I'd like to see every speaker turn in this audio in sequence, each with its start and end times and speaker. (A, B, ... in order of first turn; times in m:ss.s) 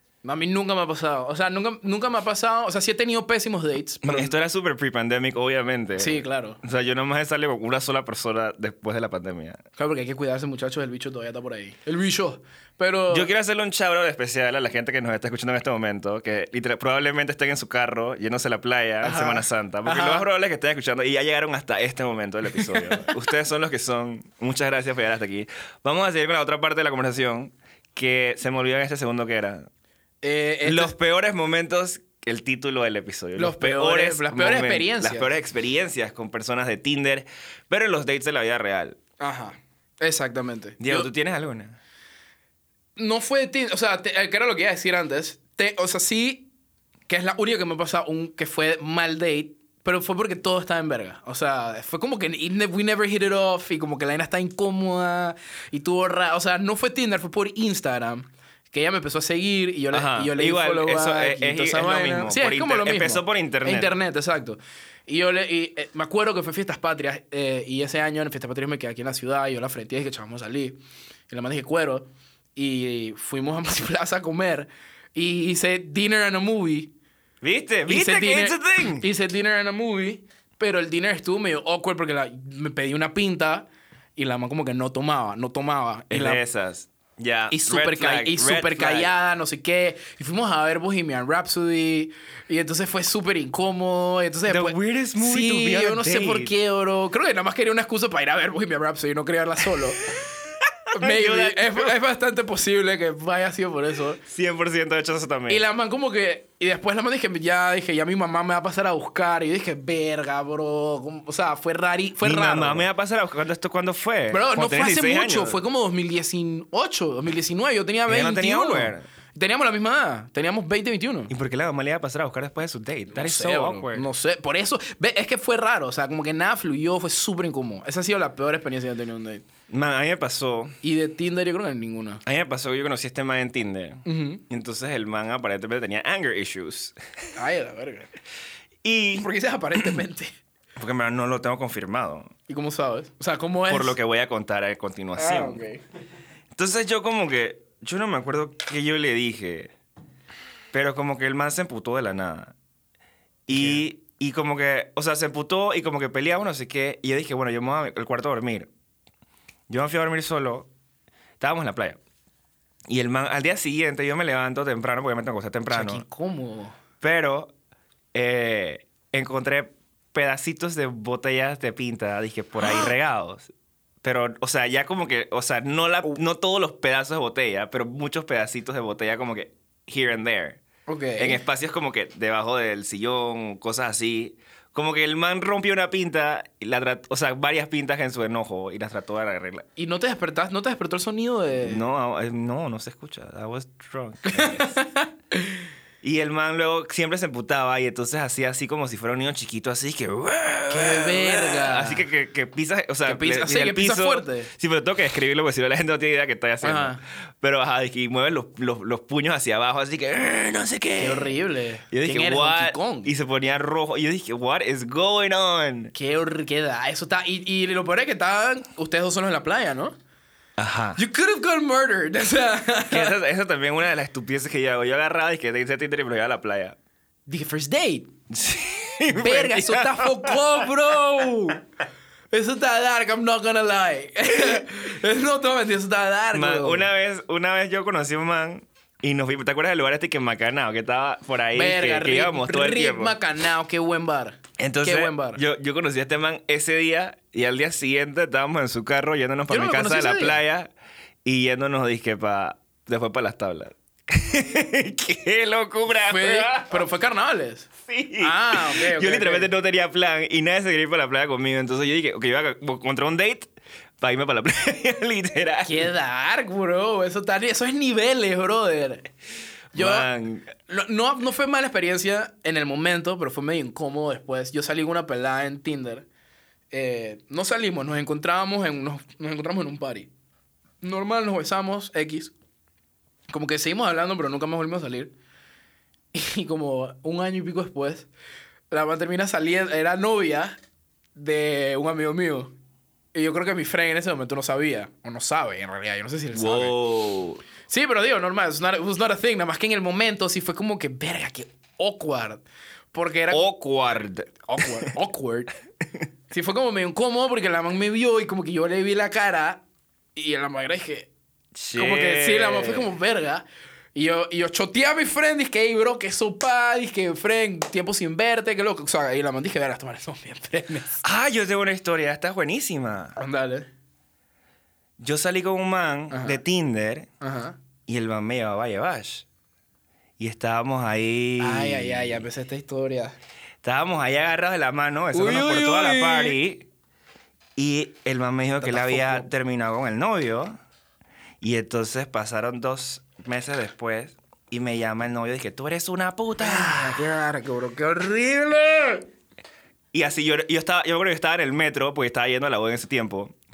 0:00.2-0:04.3 A
0:04.0-0:09.6 B
0:06.0-0:06.6 A
0:09.8-0:13.3 A
0:13.1-0:29.7 B
0:19.0-0:20.2 A
0:22.5-0:23.1 A
0:30.2-0:31.0 A
0:30.6-0:39.0 B
0:33.4-0:35.3 A
0:39.2-0:41.1 A
0:40.8-0:41.8 B
0:43.0-0:46.5 A
0:47.1-1:10.8 A
0:59.9-1:03.9 B
1:11.3-1:16.9 A
1:17.4-1:19.0 B
1:17.9-1:26.4 A
1:26.1-1:29.1 B
1:27.5-1:40.0 A
1:34.5-1:36.5 B
1:40.4-1:41.9 B
1:40.9-1:44.2 A
1:44.2-1:45.6 B
1:45.5-1:52.9 A
1:52.2-1:55.6 B
1:54.3-2:01.3 A
1:58.1-1:59.0 B
2:01.3-2:04.1 B
2:03.1-2:09.4 A
2:09.7-2:10.7 B
2:10.8-2:12.2 A
2:12.2-2:17.0 B
2:14.0-2:14.4 A
2:17.4-2:18.1 A
2:18.8-2:20.0 B
2:19.2-2:20.3 A
2:20.8-2:22.3 B
2:22.5-2:24.0 A
2:23.7-2:25.6 B
2:25.1-2:25.8 A
2:26.5-2:29.7 B
2:30.7-2:32.5 B
2:33.5-2:38.7 B
2:33.5-2:33.8 A
2:39.7-2:40.7 B
2:41.4-2:42.0 B
2:42.9-2:46.0 B
2:45.7-2:46.7 A
2:47.0-2:47.5 B
2:48.1-2:53.5 B
2:52.6-2:52.9 A
2:54.0-3:00.6 B
3:00.9-3:01.4 A
3:01.2-3:09.6 B
3:09.8-3:11.8 A
3:11.6-3:14.7 B
3:14.2-3:15.6 A
3:16.0-3:31.4 B
3:20.7-3:22.1 A
3:23.0-3:24.5 A
3:26.6-3:27.0 A
3:31.0-3:33.1 A
3:31.9-3:35.9 B
3:35.9-3:40.0 A
3:40.6-3:41.0 B
3:41.0-3:43.1 A
3:42.9-3:46.8 B
3:47.3-3:48.1 A
3:48.3-3:50.7 B
3:49.1-3:51.6 A
3:52.3-3:56.9 A
3:56.3-4:03.1 B
4:01.5-4:05.4 A
4:04.6-4:10.7 B
4:09.5-4:10.4 A
4:11.2-4:16.8 B
4:15.9-4:19.5 A
4:17.8-4:25.9 B
4:25.6-4:29.1 A
4:29.7-4:30.1 A
4:29.7-4:30.5 B
4:30.6-4:36.0 A
4:36.7-4:40.1 A
4:40.8-4:42.3 A
4:43.3-4:45.1 A
4:46.1-4:48.1 A
4:48.7-4:50.6 A
4:51.1-4:52.5 A
4:53.1-4:56.8 A
4:56.3-4:57.4 B
4:57.7-5:03.4 A
5:03.3-5:04.9 B
5:04.4-5:05.5 A
5:06.3-5:09.6 A
5:10.1-5:11.1 A
5:11.5-5:12.9 B
5:11.7-5:21.0 A
5:21.0-5:23.2 B
5:23.2-5:23.7 A
5:25.0-5:27.1 B
5:26.1-5:26.4 A
5:27.2-5:27.6 A
5:27.9-5:29.2 B
5:30.2-5:32.2 B
5:31.4-5:33.1 A
5:33.6-5:36.7 B
5:35.1-5:36.4 A
5:37.6-5:40.5 B
5:38.6-5:39.2 A
5:41.4-5:47.0 B
5:46.4-5:49.0 A
5:49.9-5:53.3 B